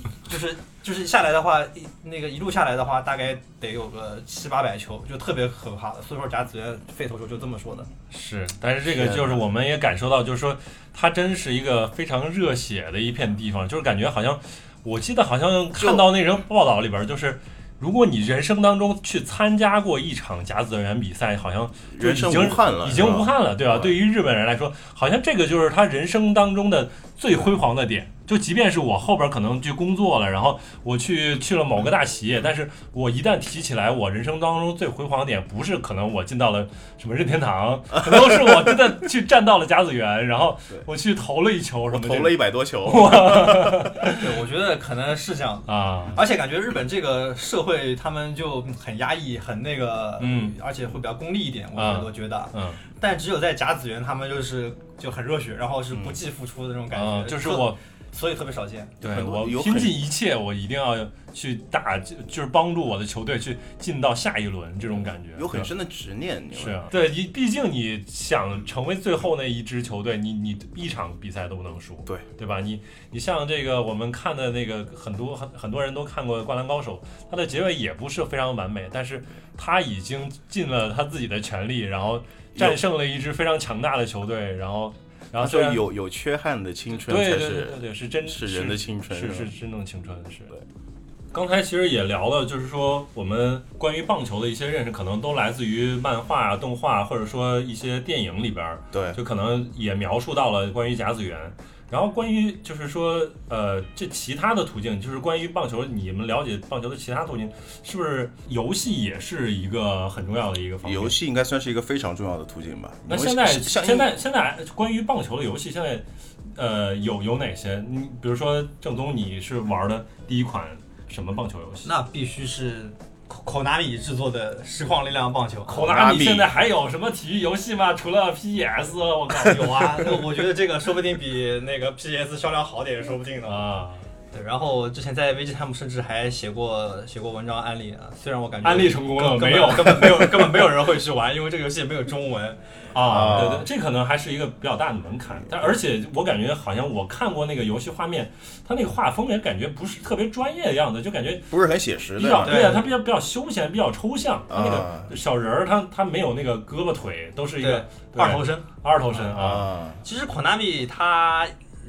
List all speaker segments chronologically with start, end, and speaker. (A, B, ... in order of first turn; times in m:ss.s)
0:00.2-0:07.9 A
0:08.1-0:44.2 B
0:08.8-0:09.4 C
0:15.8-0:16.1 C
0:21.9-0:23.9 C
0:41.9-0:43.9 C
0:44.1-0:59.0 A
0:45.7-0:46.2 B
0:50.2-0:50.5 B
0:51.8-0:52.8 B
0:56.9-0:57.8 B
0:59.0-1:00.0 C
0:59.0-1:05.7 B
1:05.3-1:06.8 C
1:06.5-1:25.8 B
1:22.5-1:22.8 C
1:25.4-1:29.5 C
1:27.0-1:30.5 B
1:31.3-1:51.1 B
1:38.9-1:39.2 C
1:50.8-1:54.1 C
1:53.1-1:56.0 B
1:56.5-2:01.9 B
2:01.8-2:05.9 A
2:05.7-2:10.2 B
2:05.8-2:06.5 C
2:09.4-2:13.7 A
2:13.4-2:14.1 B
2:14.3-2:22.6 A
2:18.6-2:20.8 B
2:22.9-2:31.5 B
2:23.0-2:23.7 C
2:31.5-2:32.8 C
2:32.2-2:39.7 B
2:32.4-2:32.9 A
2:34.5-2:35.1 C
2:37.6-2:39.3 A
2:39.3-2:40.0 C
2:40.0-2:41.5 A